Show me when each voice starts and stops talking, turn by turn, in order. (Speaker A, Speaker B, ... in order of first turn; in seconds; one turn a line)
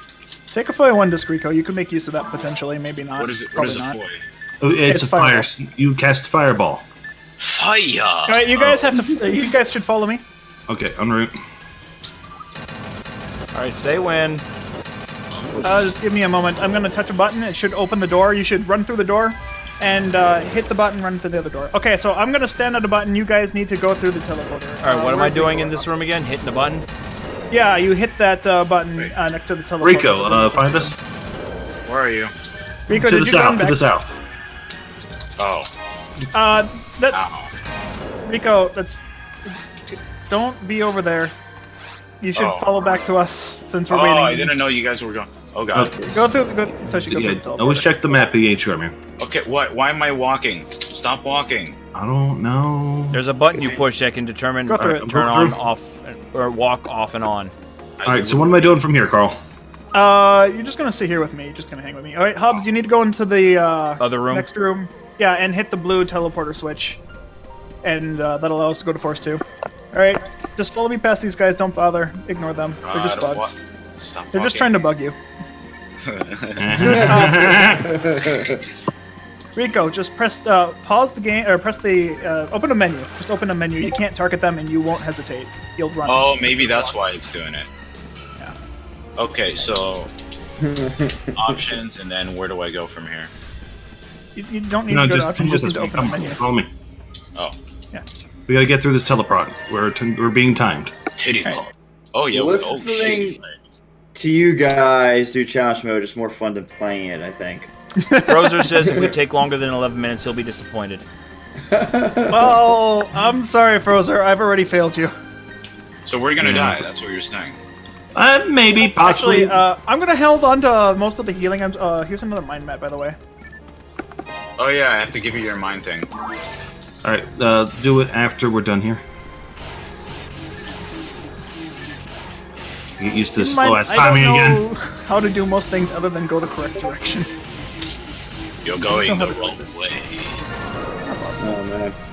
Speaker A: 0.5-4.0
Speaker B: 3.2-4.2
Speaker C: 4.6-6.8
Speaker A: 4.9-5.5
Speaker B: 7.4-9.0
Speaker A: 8.3-10.2
Speaker C: 10.7-11.3
Speaker D: 13.5-14.4
Speaker B: 15.3-15.9
Speaker A: 15.6-26.1
Speaker D: 24.8-26.9
Speaker A: 27.5-30.9
Speaker C: 29.8-30.9
Speaker B: 31.9-32.3
Speaker A: 32.9-33.8
Speaker C: 32.9-34.1
Speaker B: 35.4-35.7
Speaker A: 36.3-37.2
Speaker B: 37.1-37.5
Speaker A: 38.2-41.4
Speaker A: 42.2-44.5
Speaker B: 42.4-43.0
Speaker B: 43.9-46.0
Speaker C: 45.7-49.0
Speaker A: 46.1-47.9
Speaker B: 49.2-51.8
Speaker C: 51.9-53.2
Speaker D: 53.1-57.5
Speaker A: 54.7-55.0
Speaker C: 54.7-55.6
Speaker B: 58.0-58.8
Speaker C: 58.0-59.4
Speaker A: 59.9-67.0
Speaker D: 64.0-64.5
Speaker A: 67.8-73.6
Speaker B: 72.8-74.9
Speaker A: 74.3-75.2
Speaker B: 76.0-77.0
Speaker C: 76.6-78.0
Speaker E: 76.8-78.7
Speaker A: 77.0-77.7
Speaker A: 79.6-87.0
Speaker B: 86.0-87.7
Speaker B: 89.2-90.1
Speaker E: 90.6-91.6
Speaker B: 91.4-93.3
Speaker A: 94.3-96.4
Speaker C: 94.9-96.7
Speaker C: 98.5-100.9
Speaker B: 101.2-103.5
Speaker E: 102.3-103.4
Speaker E: 104.1-107.7
Speaker A: 108.0-108.9
Speaker D: 108.2-111.0
Speaker E: 111.7-112.7
Speaker A: 112.3-115.1
Speaker B: 116.1-117.6
Speaker C: 116.4-116.8
Speaker C: 118.2-119.6
Speaker A: 118.8-123.2
Speaker B: 124.6-126.1
Speaker C: 127.0-129.0
Speaker C: 133.0-134.6
Speaker A: 133.4-137.3
Speaker B: 138.6-140.4
Speaker A: 138.9-139.9
Speaker A: 141.1-141.6
Speaker E: 141.4-142.0